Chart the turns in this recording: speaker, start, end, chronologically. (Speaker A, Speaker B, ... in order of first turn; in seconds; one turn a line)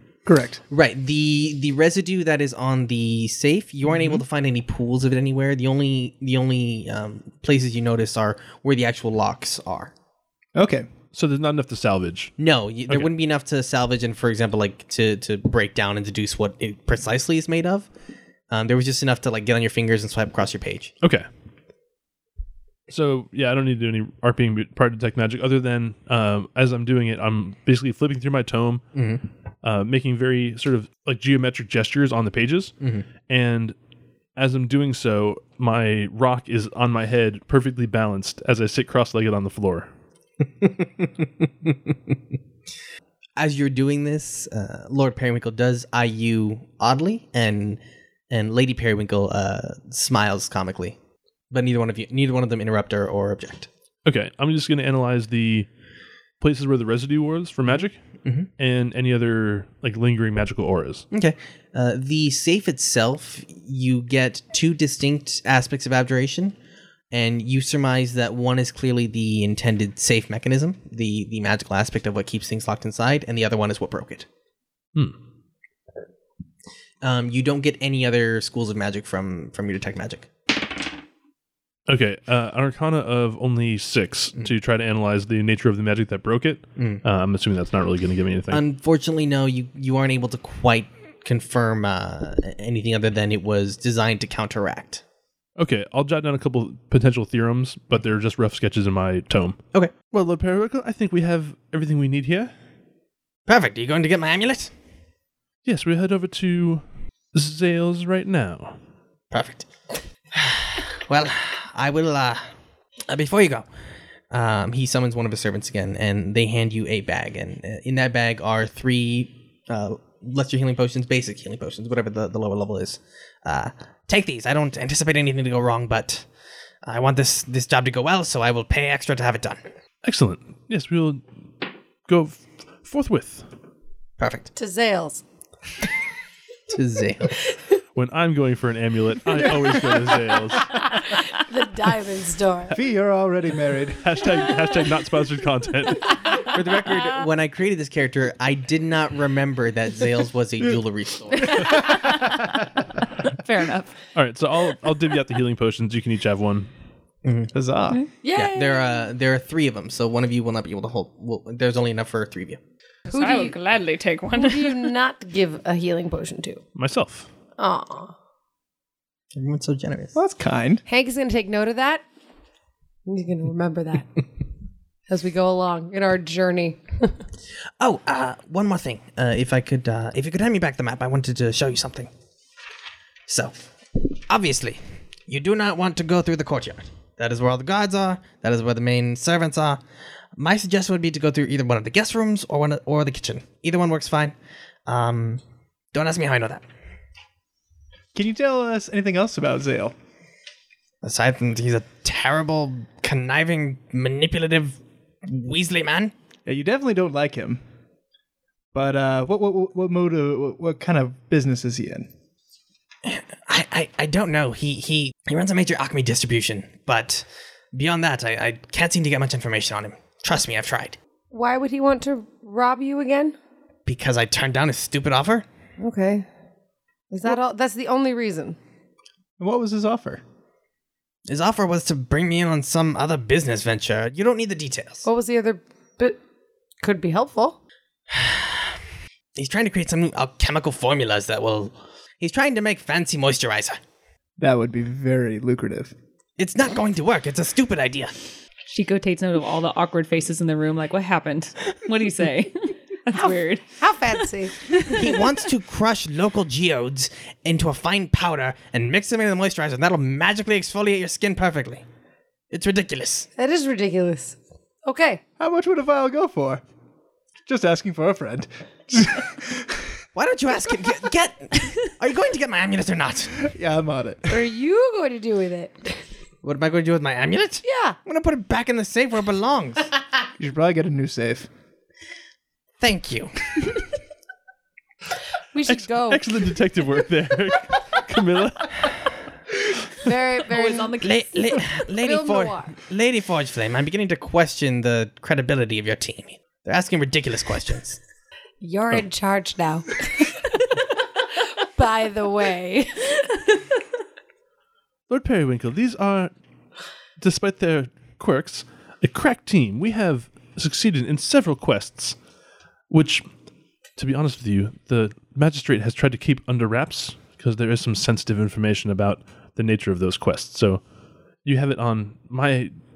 Speaker A: 0.2-0.6
Speaker B: 0.7-9.9
Speaker A: 10.6-10.9
Speaker C: 11.1-12.3
Speaker B: 12.4-17.9
Speaker B: 18.5-20.9
Speaker C: 22.9-28.8
Speaker B: 28.9-29.2
Speaker C: 29.6-32.7
Speaker C: 33.3-33.7
Speaker C: 34.4-39.9
Speaker B: 40.6-42.2
Speaker B: 43.4-51.0
Speaker B: 51.5-53.7
Speaker C: 54.0-55.7
Speaker C: 56.4-58.0
Speaker C: 58.6-61.0
Speaker B: 61.1-66.5
Speaker B: 67.1-74.3
Speaker B: 77.0-80.3
Speaker C: 81.9-88.6
Speaker B: 86.8-87.0
Speaker B: 88.5-95.0
Speaker C: 95.6-99.6
Speaker C: 100.1-102.5
Speaker B: 103.5-104.7
Speaker C: 105.6-108.8
Speaker B: 109.3-109.7
Speaker B: 110.3-112.4
Speaker B: 113.1-113.7
Speaker B: 114.3-126.3
Speaker B: 126.8-129.6
Speaker C: 130.0-131.2
Speaker C: 132.1-133.5
Speaker B: 134.2-134.5
Speaker D: 134.5-135.2
Speaker B: 136.7-137.4
Speaker C: 137.9-140.8
Speaker D: 141.0-142.8
Speaker A: 142.7-144.1
Speaker C: 144.0-146.2
Speaker B: 146.5-151.8
Speaker E: 151.4-153.9
Speaker C: 154.1-156.7
Speaker B: 157.2-157.5
Speaker A: 157.5-158.0
Speaker D: 158.2-158.9
Speaker B: 158.3-162.6
Speaker D: 163.1-163.5
Speaker E: 163.1-164.9
Speaker D: 164.3-166.6
Speaker C: 166.8-167.3
Speaker D: 167.6-168.1
Speaker B: 169.3-170.1
Speaker A: 170.1-170.8
Speaker D: 170.8-172.0
Speaker D: 173.1-174.2
Speaker D: 175.1-177.1
Speaker B: 177.8-182.1
Speaker B: 183.3-189.8
Speaker B: 190.4-194.3
Speaker B: 194.9-195.4
Speaker B: 195.9-196.7
Speaker A: 198.1-199.9
Speaker B: 201.0-206.1
Speaker A: 206.4-207.6
Speaker A: 208.7-212.1
Speaker B: 213.0-221.0
Speaker D: 221.3-223.3
Speaker B: 223.8-225.4
Speaker D: 225.8-226.2
Speaker D: 227.1-228.6
Speaker A: 229.4-230.2
Speaker B: 231.3-235.1
Speaker D: 235.0-236.2
Speaker D: 236.8-237.6
Speaker B: 238.1-238.8
Speaker B: 239.3-243.8
Speaker A: 244.4-245.9
Speaker B: 246.4-248.2
Speaker E: 248.7-253.7
Speaker D: 253.1-255.1
Speaker B: 254.8-261.8
Speaker B: 262.5-263.3
Speaker D: 263.4-265.2
Speaker A: 265.4-266.6
Speaker A: 267.4-269.9
Speaker B: 270.1-273.4
Speaker A: 273.4-274.3
Speaker D: 274.3-276.0
Speaker B: 276.4-279.9
Speaker D: 277.6-278.0
Speaker A: 280.4-281.5
Speaker B: 282.8-283.3
Speaker D: 285.5-286.2
Speaker C: 285.6-289.1
Speaker D: 290.0-290.9
Speaker E: 290.5-291.4
Speaker B: 291.0-298.0
Speaker D: 292.0-292.7
Speaker D: 298.6-300.7
Speaker D: 301.6-303.4
Speaker C: 305.1-306.3
Speaker C: 307.2-312.1
Speaker C: 312.9-313.2
Speaker C: 314.0-320.8
Speaker C: 321.4-322.7